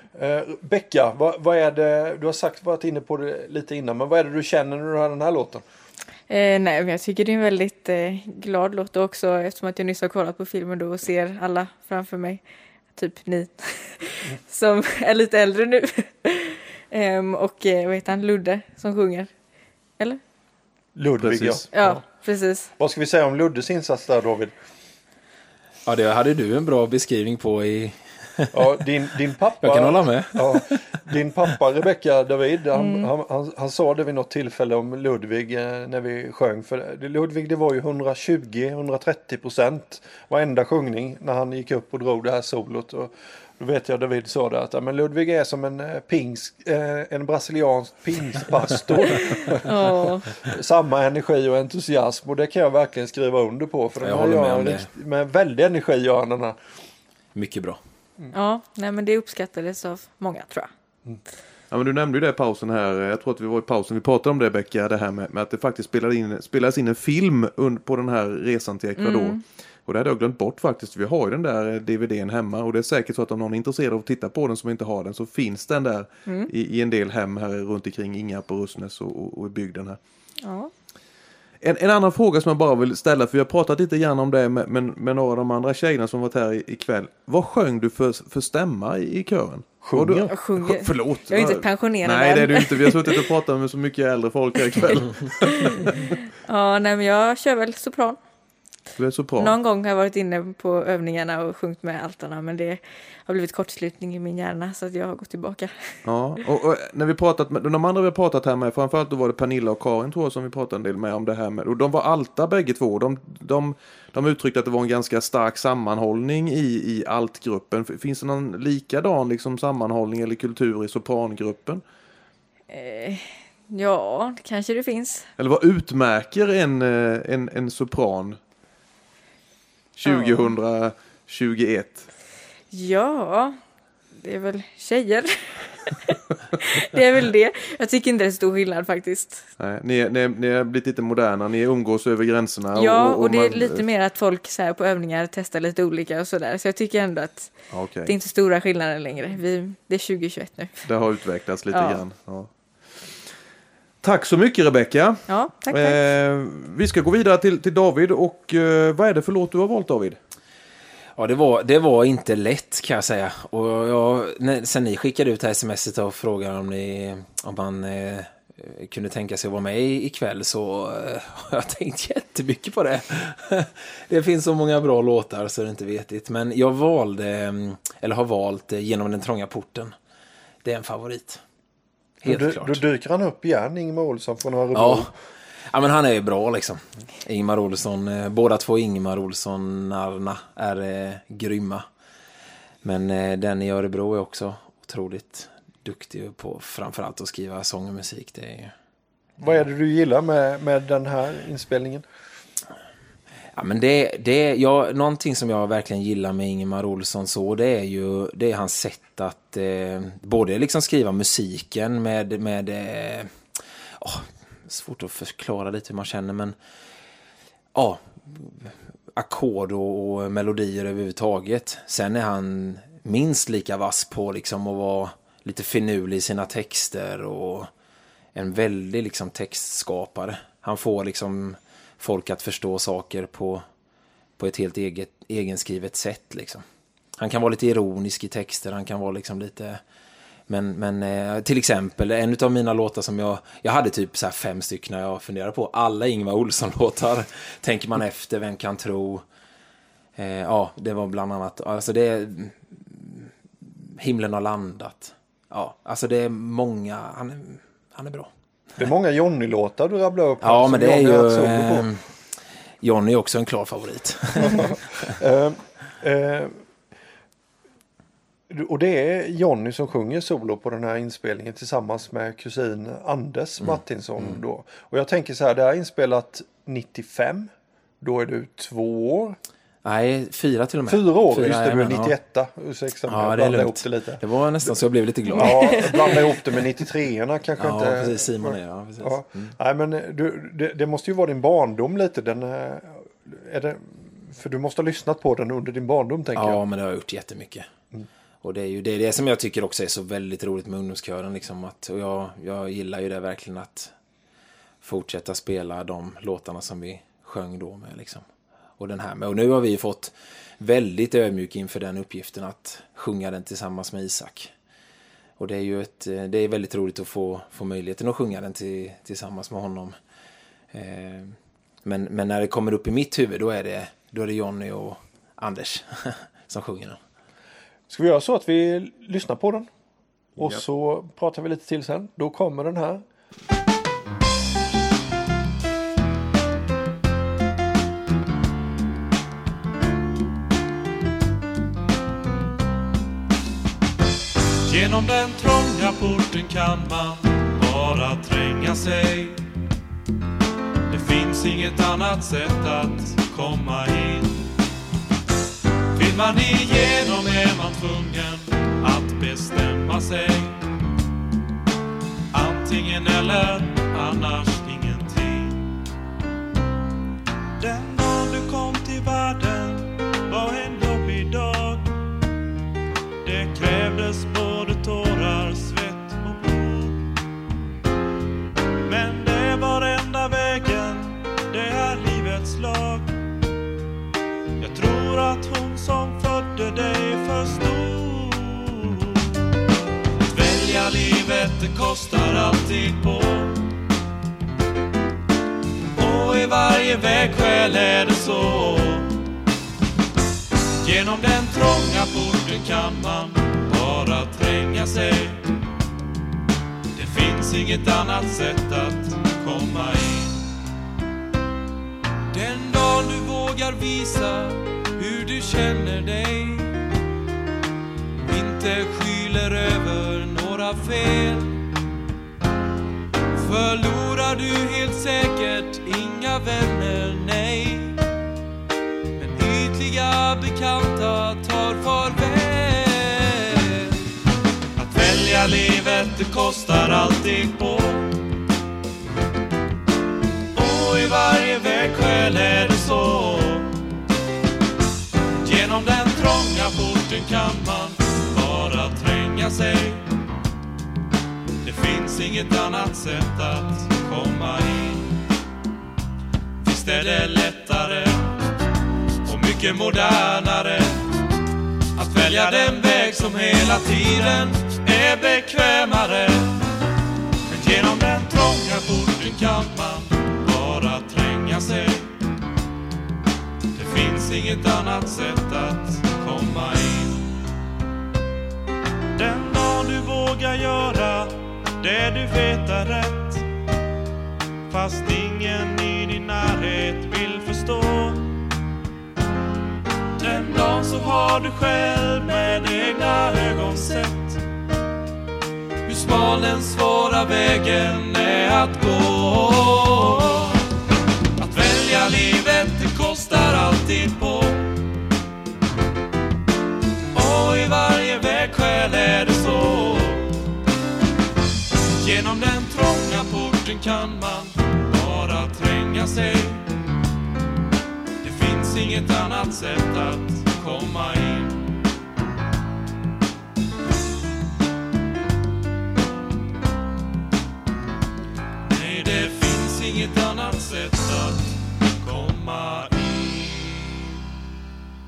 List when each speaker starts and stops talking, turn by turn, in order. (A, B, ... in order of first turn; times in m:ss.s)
0:00.1-0:05.6 A
0:06.3-0:12.4 B
0:12.9-0:19.3 B
0:21.0-0:22.0 A
0:21.2-0:21.6 C
0:21.7-0:22.7 B
0:22.8-0:24.5 A
0:25.8-0:28.7 D
0:28.5-0:49.7 A
0:29.6-0:30.7 D
0:32.7-0:33.1 B
0:49.5-0:50.3 B
0:50.3-0:56.6 A
0:54.0-0:54.9 D
0:57.3-0:57.8 D
0:58.3-1:00.7 B
1:01.7-1:20.0 C
1:09.0-1:09.4 B
1:20.4-1:20.7 B
1:21.6-1:35.9 C
1:29.8-1:30.3 A
1:30.3-1:33.2 B
1:34.7-1:38.2 B
1:39.0-1:39.5 C
1:39.4-1:46.0 B
1:46.0-2:01.8 C
2:02.7-2:05.2 B
2:05.4-2:08.4 C
2:10.0-2:12.1 C
2:10.1-2:10.4 B
2:12.7-2:13.6 B
2:14.2-2:19.4 B
2:19.6-2:23.8 C
2:22.7-2:27.5 B
2:27.7-2:28.1 C
2:28.0-2:30.8 B
2:30.8-2:32.5 C
2:31.7-2:32.0 B
2:34.0-2:40.2 C
2:35.3-2:36.0 B
2:41.2-2:59.9 D
3:00.6-3:01.4 D
3:02.2-3:02.8 D
3:02.2-3:05.1 A
3:04.7-3:05.1 D
3:05.7-3:11.8 D
3:12.8-3:18.7 D
3:19.4-3:22.0 A
3:23.5-3:33.3 D
3:34.0-3:36.6 D
3:37.7-3:47.7 D
3:48.3-3:53.6 D
3:54.4-3:56.6 D
3:57.2-3:59.8 D
4:00.5-4:09.2 D
4:10.2-4:18.3 D
4:18.8-4:21.9 A
4:20.4-4:22.0 D
4:22.8-4:25.1 D
4:24.4-4:26.5 A
4:28.5-4:37.5 A
4:33.6-4:34.4 D
4:38.0-4:39.4 A
4:39.8-4:42.2 D
4:40.9-4:44.8 A
4:43.1-4:46.2 D
4:45.3-4:56.6 A
4:47.6-4:49.5 D
4:56.3-4:57.7 D
4:58.4-5:03.9 D
5:04.8-5:08.2 D
5:08.8-5:14.5 D
5:15.4-5:19.9 D
5:20.7-5:27.0 D
5:27.9-5:29.7 A
5:30.4-5:33.0 A
5:44.6-5:49.4 E
5:50.9-5:54.4 E
5:55.9-6:00.6 E
6:02.3-6:05.7 E
6:07.6-6:12.0 E
6:13.2-6:17.0 E
6:18.8-6:23.2 E
6:24.6-6:29.3 E
6:30.2-6:33.6 E
6:36.0-6:39.1 E
6:40.8-6:45.4 E
6:46.9-6:50.4 E
6:52.3-6:56.8 E
6:58.2-7:01.6 E
7:03.3-7:08.0 E
7:09.2-7:14.0 E
7:14.8-7:18.1 E
7:20.5-7:23.7 E
7:25.4-7:30.0 E
7:31.6-7:35.2 E
7:36.6-7:38.4 E
7:39.2-7:41.1 E
7:42.0-7:46.6 E
7:47.5-7:52.1 E
7:53.7-7:57.4 E
7:59.2-8:03.4 E
8:04.7-8:08.3 E
8:10.2-8:14.4 E
8:15.8-8:20.6 E
8:21.4-8:24.7 E
8:27.1-8:30.4 E
8:31.9-8:36.7 E
8:38.2-8:41.7 E
8:48.7-8:54.0 E